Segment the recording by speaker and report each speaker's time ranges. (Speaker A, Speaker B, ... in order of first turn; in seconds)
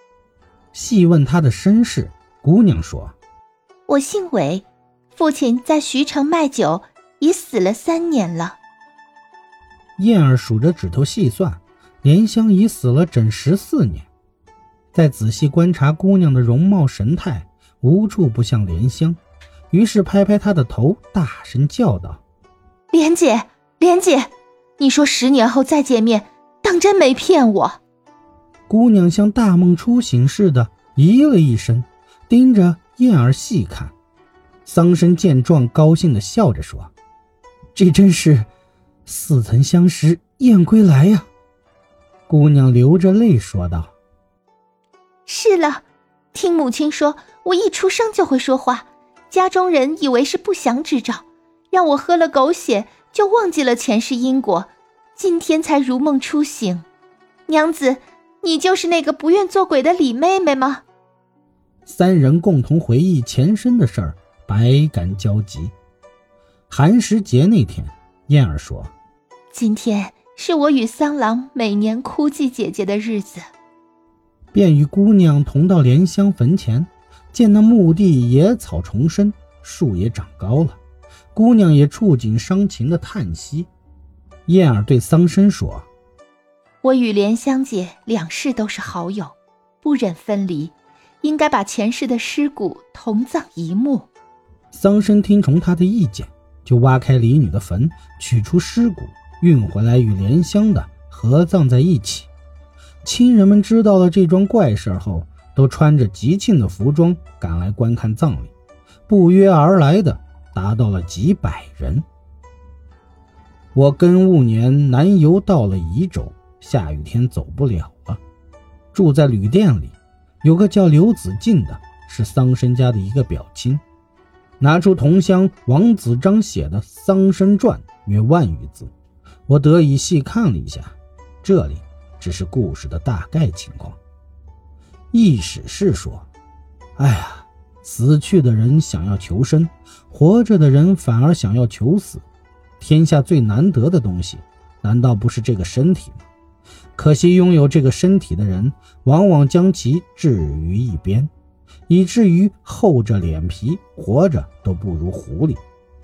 Speaker A: 0.7-3.2, 10.0-14.1, 14.9-19.2, 19.7-22.2, 28.7-33.9, 34.7-36.9, 37.8-38.5, 39.1-41.3, 42.3-43.9, 61.9-65.7, 66.7-68.9, 74.5-80.8, 81.3-83.7, 84.5-85.9, 94.7-102.3, 103.0-108.5, 109.1-112.0, 113.8-118.2, 118.9-123.8, 124.6-128.9, 129.5-134.0, 135.1-136.3, 137.0-142.2, 142.8-146.3, 147.0-151.3, 151.9-155.6
Speaker B: 3.9-8.6, 22.9-27.8, 45.3-56.9, 57.5-60.8, 69.5-73.4, 86.8-94.1